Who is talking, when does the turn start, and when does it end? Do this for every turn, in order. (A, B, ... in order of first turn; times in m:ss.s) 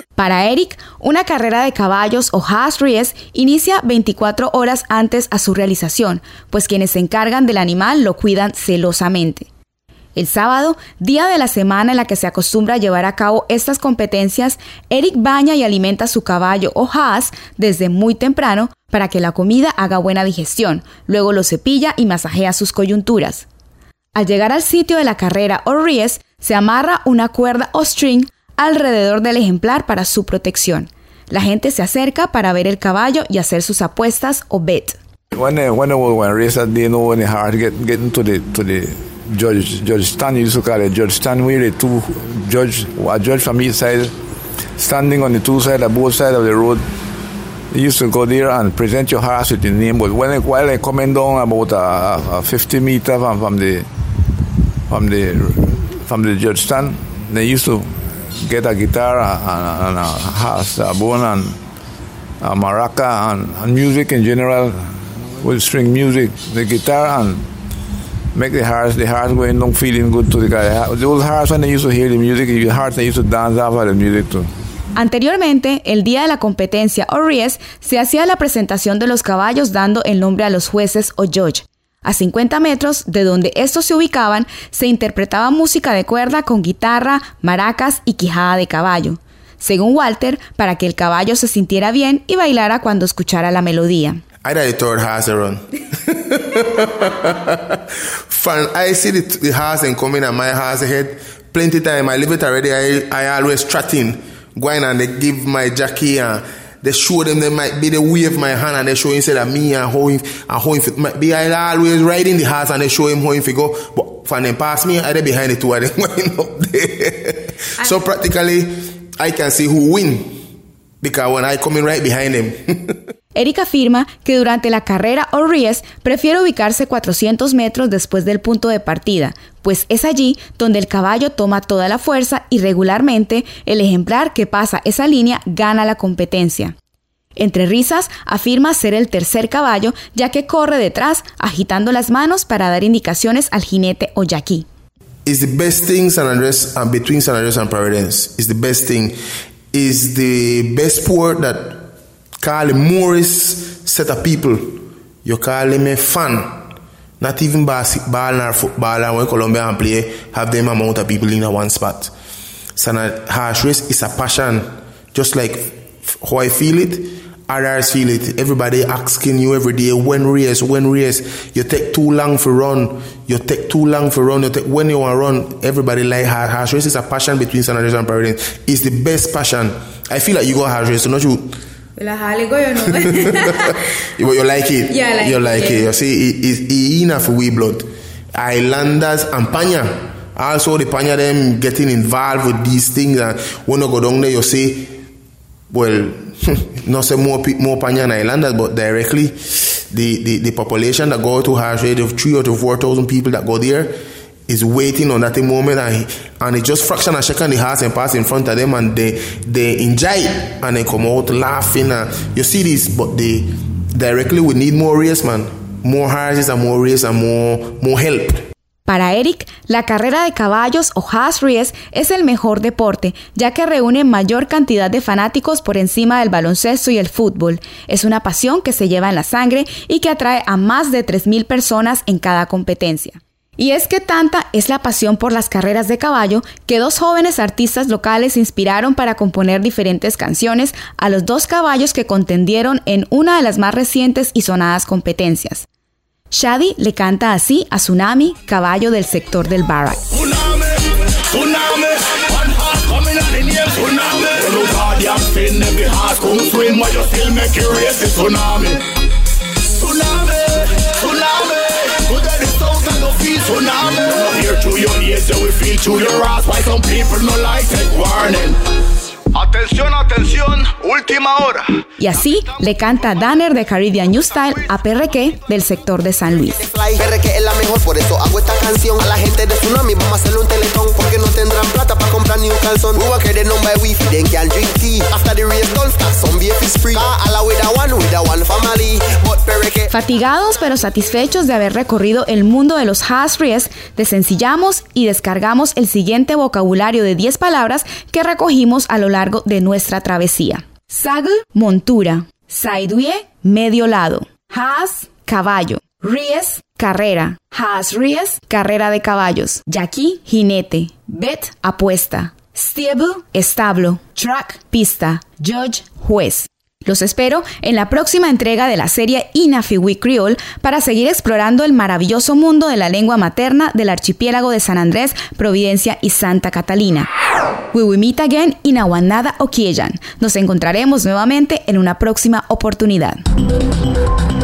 0:00.2-0:09.5 A
0:10.1-0:23.4 A
0:24.1-0:35.0 A
0:35.3-0:44.1 B
0:44.8-0:46.8 B
0:47.7-0:53.9 B
0:54.9-1:01.6 B
1:02.4-1:07.4 B
1:08.3-1:14.5 B
1:14.9-1:34.2 A
1:34.4-1:37.8 C
1:38.3-2:00.4 C
2:01.0-2:03.0 C
2:03.3-2:16.7 A
2:17.4-2:24.6 A
2:25.2-2:29.1 C
2:29.7-2:31.9 C
2:32.4-2:36.6 C
2:37.2-2:42.1 C
2:42.8-3:01.6 C
3:02.0-3:03.8 A
3:04.2-3:15.0 C
3:04.9-3:05.8 A
3:15.7-3:23.9 C
3:24.5-3:38.5 C
3:38.8-4:05.6 A
4:06.3-4:10.0 A
4:10.1-4:18.9 D
4:19.6-4:28.6 D
4:29.3-4:31.8 D
4:32.0-4:36.7 A
4:36.7-4:49.9 E
4:49.9-5:27.1 A
5:27.7-5:33.2 A